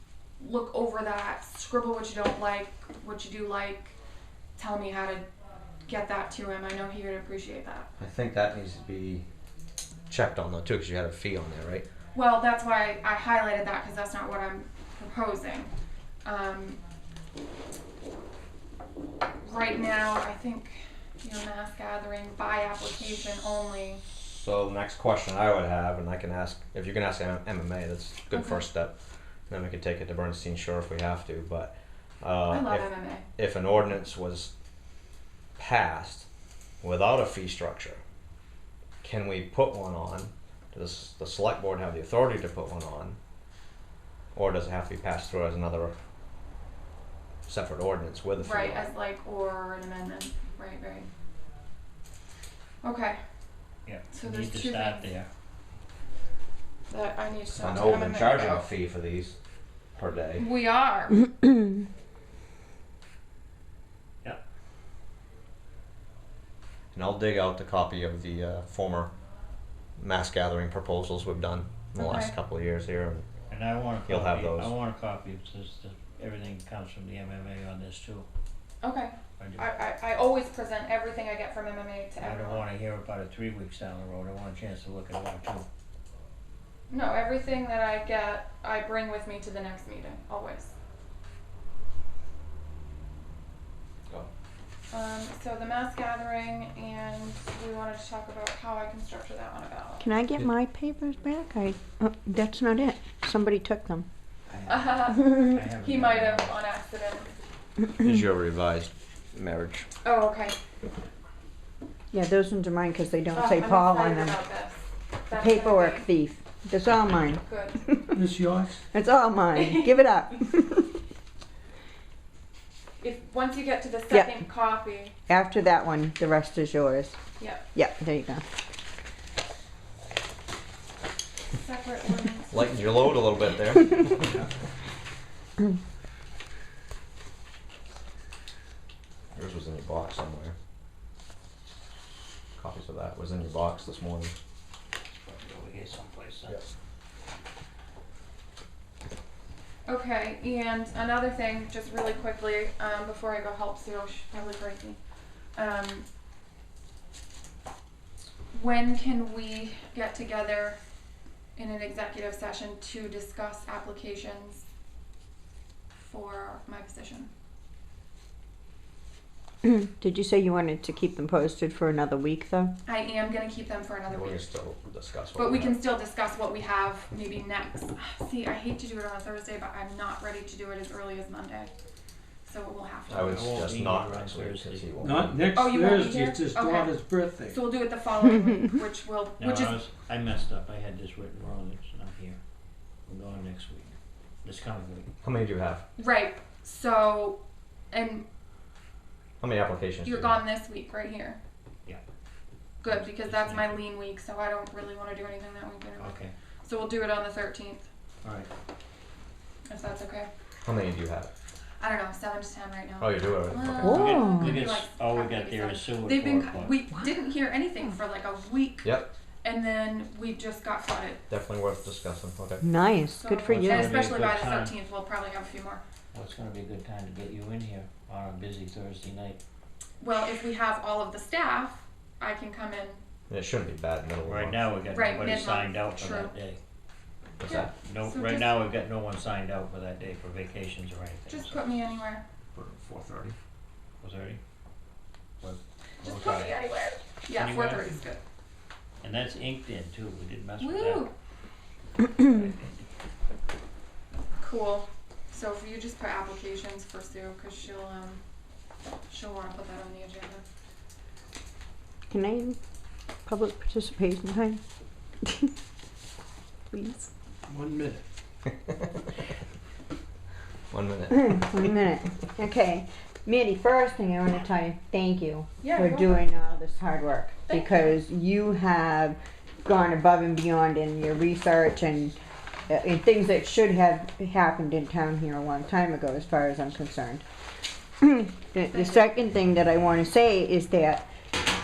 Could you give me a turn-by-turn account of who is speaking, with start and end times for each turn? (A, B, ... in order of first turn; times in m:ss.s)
0:00.4-0:04.0 A
0:04.6-0:05.3 A
0:05.9-0:07.9 A
0:08.0-0:09.2 B
0:10.1-0:11.8 B
0:12.1-0:15.7 A
0:16.2-0:16.8 A
0:19.4-0:24.0 A
0:24.2-0:28.9 B
0:28.3-0:28.6 A
0:29.5-0:34.5 B
0:32.5-0:33.3 A
0:35.6-0:36.3 B
0:36.8-0:38.0 B
0:39.0-0:43.2 B
0:44.3-0:45.9 B
0:47.5-0:48.9 B
0:48.4-0:51.1 A
0:52.8-0:53.2 A
0:53.8-0:55.3 C
0:54.1-0:55.1 A
0:56.9-0:58.6 A
0:57.5-0:59.4 B
1:00.0-1:00.4 B
1:00.4-1:01.3 A
1:06.9-1:09.1 B
1:10.0-1:13.2 B
1:12.0-1:12.3 A
1:13.5-1:18.3 C
1:14.1-1:14.7 B
1:18.8-1:22.6 A
1:19.4-1:19.6 C
1:22.2-1:25.6 C
1:26.9-1:30.7 A
1:34.9-1:40.0 A
1:40.0-1:44.0 D
1:44.5-1:46.6 C
1:44.7-1:47.3 A
1:48.0-1:49.9 B
1:50.0-1:50.6 A
1:52.1-1:54.4 D
1:53.3-1:56.1 A
1:55.3-1:58.2 D
1:57.4-1:57.8 A
1:58.1-1:58.8 E
1:58.9-2:01.0 D
1:59.5-2:00.0 A
2:03.0-2:05.1 A
2:04.1-2:04.4 D
2:05.3-2:07.2 D
2:07.4-2:07.6 A
2:07.7-2:08.4 D
2:11.5-2:12.8 A
2:12.5-2:14.4 B
2:19.3-2:20.5 B
2:22.6-2:24.3 B
2:25.0-2:26.6 C
2:29.8-2:35.0 A
2:35.5-2:36.0 A
2:38.5-2:40.8 A
2:41.6-2:44.6 A
2:46.0-2:47.3 A
2:49.6-2:52.8 D
2:52.8-2:54.5 A
2:54.1-2:55.8 B
2:55.3-3:01.7 A
3:02.4-3:03.7 A
3:03.1-3:04.9 C
3:03.1-3:05.4 B
3:05.0-3:07.6 E
3:05.5-3:09.8 A
3:09.4-3:12.4 C
3:13.1-3:15.1 C
3:15.2-3:15.8 B
3:16.0-3:18.2 A
3:19.4-3:20.4 B
3:20.0-3:21.4 A
3:22.8-3:27.9 A
3:22.8-3:23.8 C
3:26.0-3:26.3 C
3:28.2-3:28.5 C
3:29.7-3:30.3 A
3:30.6-3:31.3 B
3:31.8-3:38.9 A
3:33.0-3:34.0 B
3:33.8-3:34.6 D
3:33.8-3:36.8 C
3:38.8-3:39.1 B
3:39.4-3:41.2 A
3:41.3-3:42.6 B
3:42.6-3:44.0 D
3:43.2-3:45.8 A
3:43.5-3:44.7 C
3:46.1-3:49.4 C
3:50.0-3:53.0 A
3:53.3-3:54.6 B
3:54.2-3:56.6 C
3:54.9-3:56.3 A
3:57.4-3:57.7 B
3:57.4-3:58.6 A
3:57.8-4:01.6 C
4:01.3-4:02.2 A
4:02.5-4:03.4 B
4:04.0-4:04.4 C
4:05.4-4:06.6 C
4:06.0-4:08.2 A
4:07.3-4:08.0 C
4:09.0-4:11.1 C
4:10.6-4:11.1 A
4:12.1-4:12.9 C
4:14.4-4:18.2 A
4:19.1-4:20.4 A
4:22.1-4:22.6 D
4:23.2-4:24.6 D
4:25.2-4:25.5 D
4:26.7-4:27.1 D
4:27.5-4:28.0 E
4:30.7-4:31.6 B
4:31.1-4:42.2 D
4:35.6-4:36.2 A
4:37.5-4:38.0 A
4:42.7-4:47.2 D
4:48.0-4:51.1 D
4:48.7-4:49.1 A